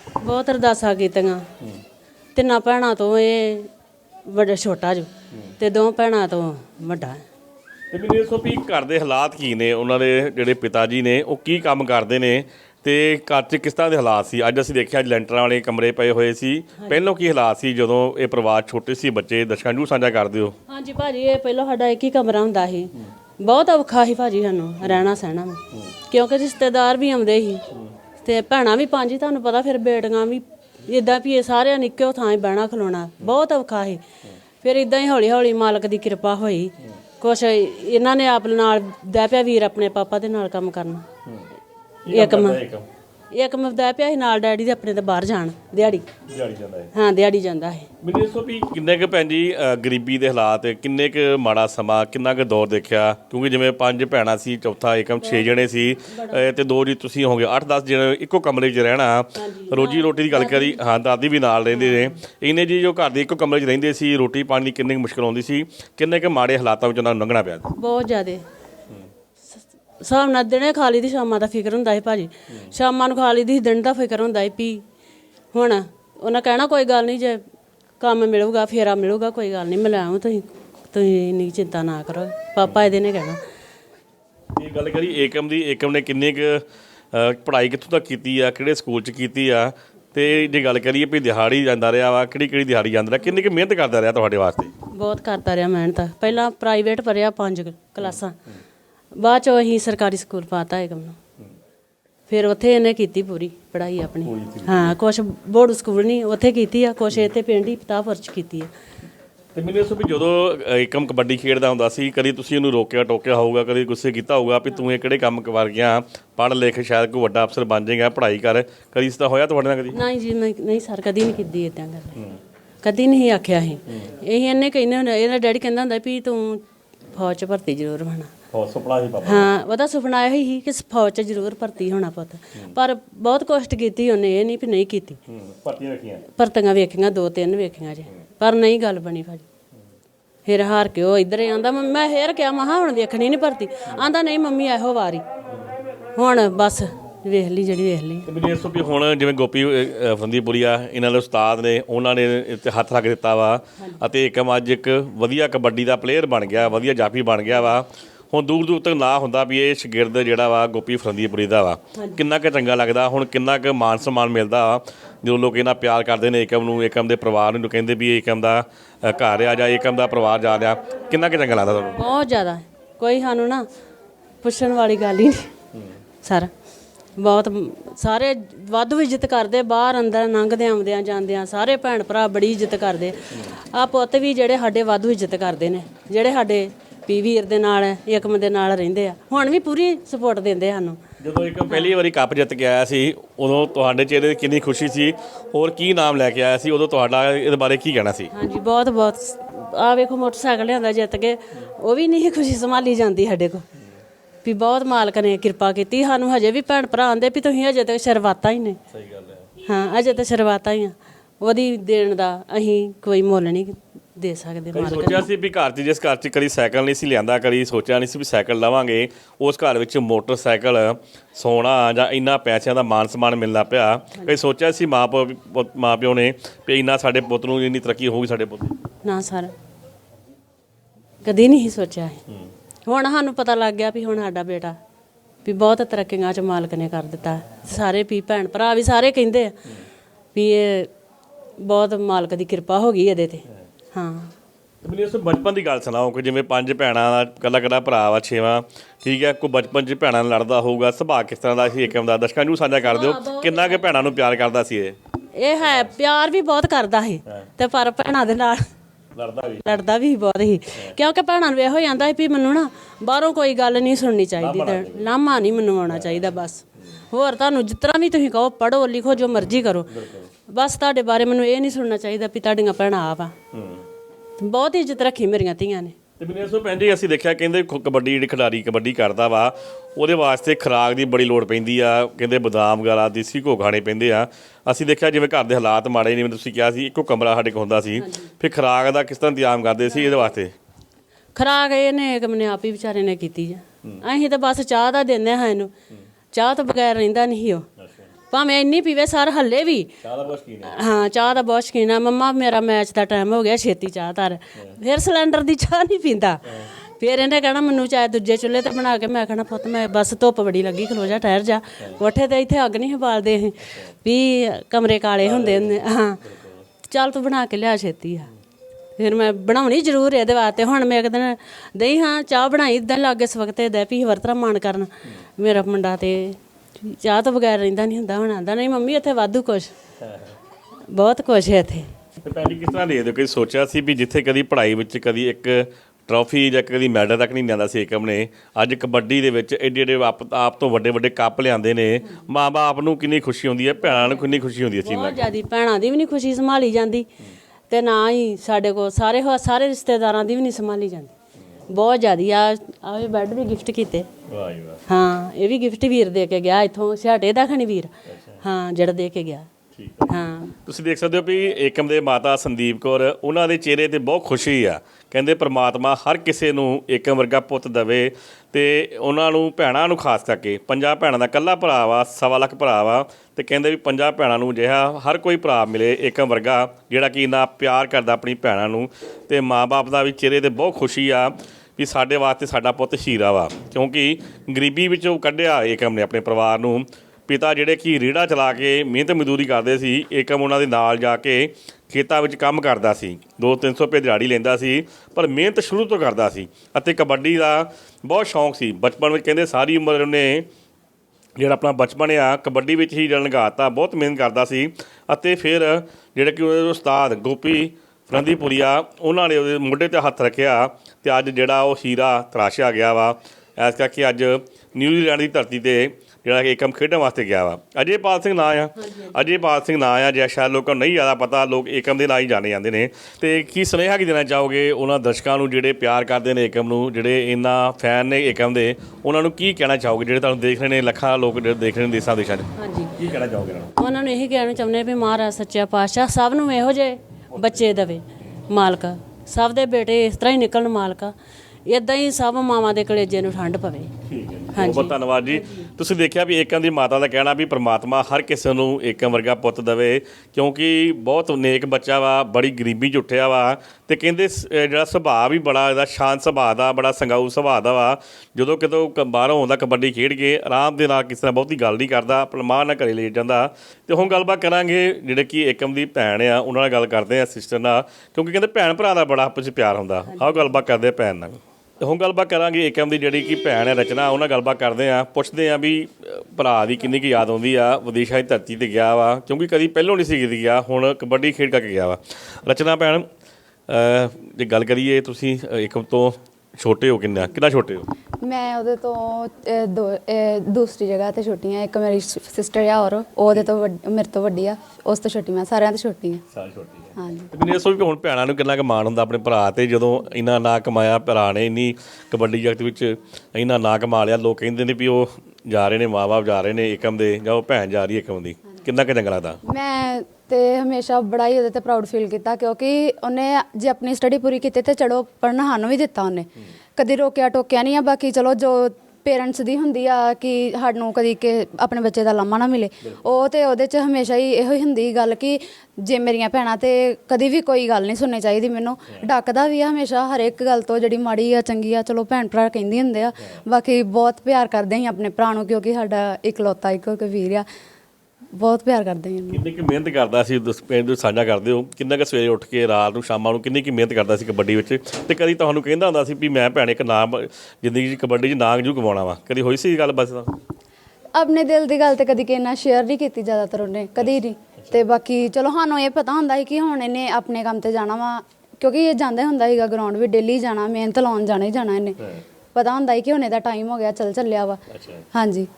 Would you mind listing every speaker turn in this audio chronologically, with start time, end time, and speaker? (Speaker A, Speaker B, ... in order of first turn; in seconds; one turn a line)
Speaker A: 0.2-1.5
Speaker A: 2.4-3.7
Speaker A: 4.3-7.2
Speaker B: 7.9-20.6
Speaker A: 16.8-17.1
Speaker A: 20.7-27.6
Speaker A: 28.2-34.0
Speaker A: 34.6-41.1
Speaker B: 42.1-42.9
Speaker A: 42.1-42.6
Speaker A: 43.3-46.2
Speaker B: 46.3-46.9
Speaker A: 46.9-47.9
Speaker B: 48.0-67.7
Speaker A: 55.2-56.5
Speaker A: 59.4-60.8
Speaker A: 61.7-62.2
Speaker A: 67.7-68.4
Speaker A: 70.0-74.8
Speaker A: 75.5-77.4
Speaker A: 78.0-83.4
Speaker B: 84.6-94.7
Speaker A: 94.9-98.4
Speaker A: 99.2-101.2
Speaker A: 102.3-108.7
Speaker B: 104.2-105.0
Speaker B: 109.5-120.0
Speaker A: 119.9-122.2
Speaker A: 122.8-128.3
Speaker B: 128.5-129.5
Speaker A: 129.2-135.2
Speaker B: 135.3-136.2
Speaker A: 136.2-139.5
Speaker A: 140.5-145.2
Speaker A: 146.2-148.3
Speaker B: 148.3-172.0
Speaker A: 171.9-173.7
Speaker A: 174.4-175.5
Speaker A: 176.2-176.5
Speaker A: 177.2-191.0
Speaker B: 191.2-198.3
Speaker A: 191.7-191.9
Speaker A: 198.3-203.6
Speaker A: 204.4-208.8
Speaker B: 208.9-209.5
Speaker A: 209.6-215.2
Speaker B: 214.7-228.8
Speaker A: 229.0-229.5
Speaker A: 231.2-232.2
Speaker A: 232.9-234.8
Speaker A: 235.4-239.6
Speaker A: 240.3-240.9
Speaker A: 241.6-244.3
Speaker B: 244.8-255.0
Speaker A: 252.8-253.9
Speaker A: 255.3-258.7
Speaker B: 255.6-255.9
Speaker B: 259.1-259.7
Speaker A: 259.6-270.0
Speaker B: 264.4-265.1
Speaker B: 265.9-266.4
Speaker B: 269.9-270.3
Speaker A: 270.5-273.3
Speaker B: 273.5-273.8
Speaker A: 274.4-276.0
Speaker B: 276.2-290.5
Speaker A: 288.0-288.3
Speaker A: 291.4-295.7
Speaker A: 296.3-297.7
Speaker B: 297.8-298.1
Speaker A: 298.3-299.9
Speaker B: 300.0-300.8
Speaker A: 300.6-316.2
Speaker B: 315.2-316.6
Speaker A: 316.9-318.3
Speaker A: 319.0-329.7
Speaker B: 330.0-330.4
Speaker A: 330.9-331.9
Speaker B: 332.2-345.3
Speaker A: 343.8-347.1
Speaker A: 347.7-351.1
Speaker A: 351.7-354.1
Speaker B: 354.3-354.8
Speaker A: 354.9-359.5
Speaker B: 358.1-358.4
Speaker B: 359.7-400.5
Speaker A: 360.1-360.6
Speaker B: 401.4-433.7
Speaker A: 418.8-419.3
Speaker A: 432.6-433.0
Speaker A: 433.8-441.1
Speaker B: 437.3-437.7
Speaker A: 441.6-443.9
Speaker B: 444.1-483.1
Speaker A: 444.5-445.7
Speaker A: 470.1-470.6
Speaker B: 483.7-487.9
Speaker C: 488.2-496.2
Speaker B: 496.3-509.4
Speaker C: 497.0-497.3
Speaker C: 509.5-537.5
Speaker C: 538.4-539.4
Speaker B: 539.3-550.4
Speaker C: 551.1-562.0
Speaker B: 554.0-554.8
Speaker C: 562.5-564.6
Speaker B: 564.7-565.1
Speaker C: 565.1-565.5